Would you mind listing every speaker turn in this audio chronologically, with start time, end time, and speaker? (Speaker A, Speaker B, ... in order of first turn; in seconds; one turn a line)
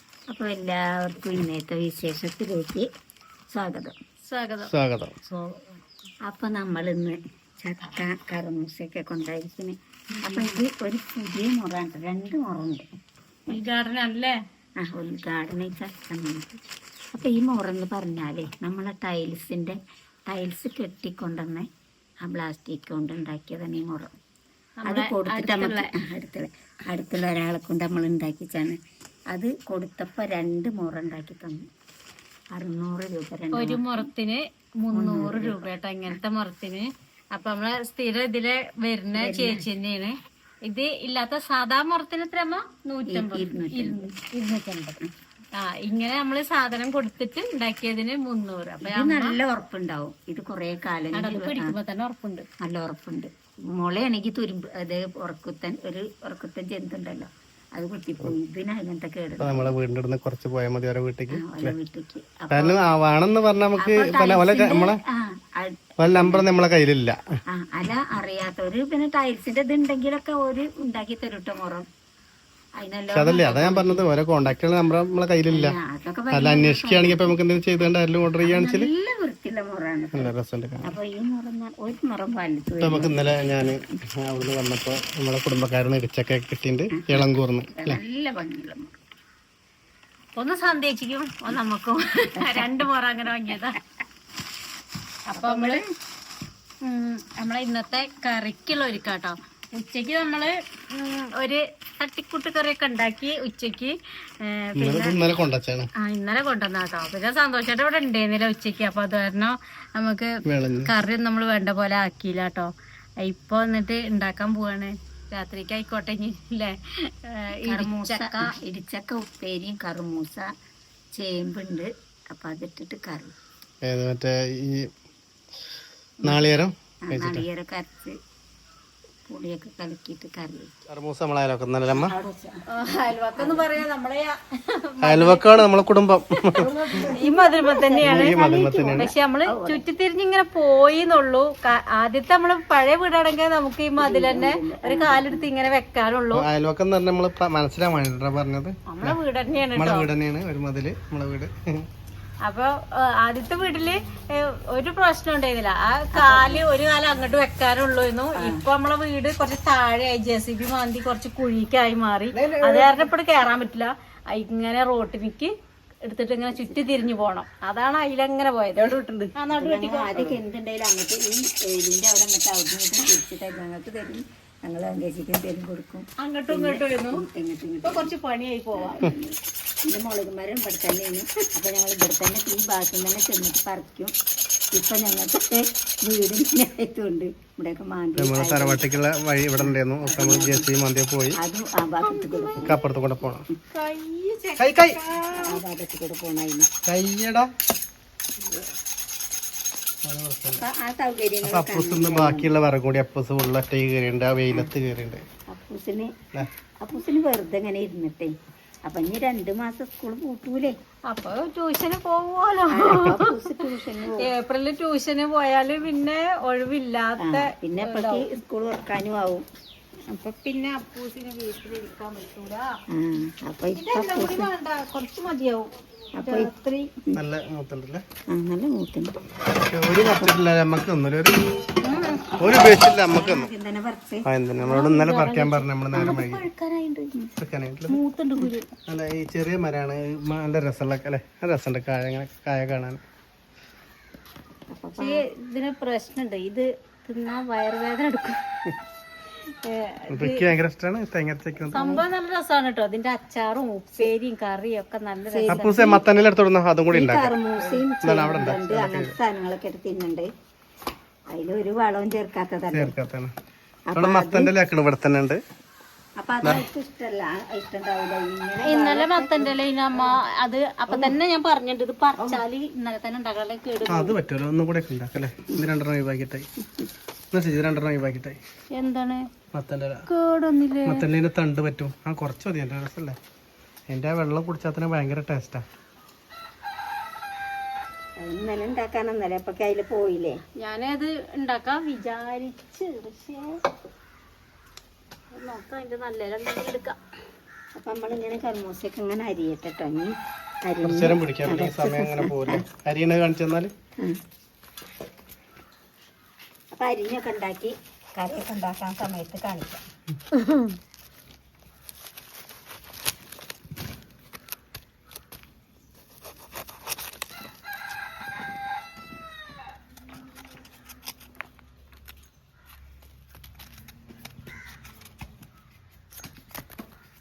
Speaker A: 0.3-2.9
Speaker A: 3.5-4.0
Speaker B: 4.3-4.7
Speaker C: 4.7-5.2
Speaker A: 5.3-5.7
Speaker A: 6.3-12.8
Speaker B: 10.2-10.6
Speaker B: 13.5-14.4
Speaker A: 14.8-16.6
Speaker A: 17.1-19.8
Speaker A: 20.3-21.7
Speaker A: 22.2-24.1
Speaker B: 24.8-25.9
Speaker A: 24.9-28.8
Speaker A: 29.3-31.6
Speaker A: 32.5-34.1
Speaker B: 33.5-45.0
Speaker A: 34.9-36.2
Speaker A: 39.1-39.7
Speaker A: 43.1-44.1
Speaker B: 45.5-49.4
Speaker A: 48.8-51.8
Speaker B: 51.1-52.5
Speaker A: 52.6-59.8
Speaker C: 59.4-61.8
Speaker A: 61.3-62.8
Speaker C: 62.5-65.0
Speaker A: 63.8-66.5
Speaker C: 66.0-67.2
Speaker A: 67.5-71.9
Speaker A: 72.8-74.1
Speaker C: 73.1-75.8
Speaker A: 75.5-77.4
Speaker C: 76.3-78.9
Speaker A: 78.4-83.3
Speaker C: 80.1-81.0
Speaker C: 82.8-88.0
Speaker A: 86.9-89.0
Speaker B: 90.3-93.8
Speaker A: 92.4-92.8
Speaker B: 95.3-95.8
Speaker A: 95.3-95.9
Speaker B: 96.8-105.2
Speaker C: 104.8-105.9
Speaker B: 106.0-118.5
Speaker C: 110.5-110.9
Speaker A: 117.7-120.5
Speaker A: 121.2-123.3
Speaker C: 123.8-124.9
Speaker C: 126.2-127.5
Speaker A: 127.0-128.2
Speaker A: 129.3-130.9
Speaker C: 130.9-132.1
Speaker A: 131.9-132.6
Speaker B: 132.7-135.6
Speaker A: 133.3-133.8
Speaker C: 135.0-136.7
Speaker A: 136.6-138.7
Speaker B: 136.9-146.4
Speaker C: 138.0-139.1
Speaker A: 139.5-139.8
Speaker A: 144.0-145.5
Speaker C: 146.3-149.2
Speaker B: 148.9-150.1
Speaker C: 149.8-151.9
Speaker B: 152.4-165.5
Speaker A: 156.1-156.7
Speaker A: 158.4-158.6
Speaker B: 166.1-170.4
Speaker A: 166.6-166.8
Speaker A: 169.5-178.1
Speaker B: 176.2-177.2
Speaker B: 177.8-179.0
Speaker A: 178.8-184.1
Speaker A: 184.7-188.8
Speaker C: 188.2-191.4
Speaker A: 189.6-190.7
Speaker A: 191.3-192.8
Speaker B: 192.0-192.8
Speaker C: 192.6-193.5
Speaker B: 193.7-195.6
Speaker C: 194.6-195.0
Speaker A: 195.4-196.7
Speaker C: 196.9-197.5
Speaker C: 200.1-200.7
Speaker A: 200.6-202.5
Speaker C: 201.4-205.2
Speaker A: 205.5-206.1
Speaker A: 206.8-208.3
Speaker A: 208.8-210.8
Speaker B: 211.1-213.5
Speaker A: 212.7-214.3
Speaker B: 214.2-218.3
Speaker A: 217.2-219.5
Speaker B: 220.1-222.7
Speaker A: 222.9-224.5
Speaker B: 223.8-225.7
Speaker A: 226.2-226.5
Speaker B: 226.2-226.9
Speaker C: 227.1-228.0
Speaker A: 228.3-229.2
Speaker C: 229.5-231.4
Speaker A: 230.0-230.3
Speaker B: 231.8-232.2
Speaker C: 232.4-233.5
Speaker A: 233.1-234.3
Speaker C: 234.2-236.5
Speaker B: 234.6-237.3
Speaker C: 237.4-238.0
Speaker B: 237.9-238.7
Speaker C: 238.9-243.0
Speaker A: 244.7-245.2
Speaker B: 245.0-248.6
Speaker B: 249.6-250.5
Speaker C: 250.1-251.9
Speaker B: 251.7-255.8
Speaker A: 251.7-252.1
Speaker A: 255.3-256.0
Speaker C: 255.5-259.1
Speaker A: 256.9-260.3
Speaker A: 261.3-263.0
Speaker C: 262.7-263.3
Speaker A: 263.9-264.6
Speaker C: 264.0-265.4
Speaker A: 266.2-270.2
Speaker B: 268.6-274.1
Speaker A: 270.9-271.2
Speaker A: 272.2-272.4
Speaker C: 273.9-276.5
Speaker C: 277.3-278.4
Speaker B: 278.7-279.3
Speaker C: 279.5-280.1
Speaker B: 280.1-281.0
Speaker C: 280.9-283.2
Speaker C: 283.9-285.6
Speaker A: 288.2-290.4
Speaker B: 290.6-293.6
Speaker B: 295.3-297.0
Speaker A: 297.8-302.6
Speaker C: 300.8-303.7
Speaker A: 306.7-309.8
Speaker B: 310.3-310.7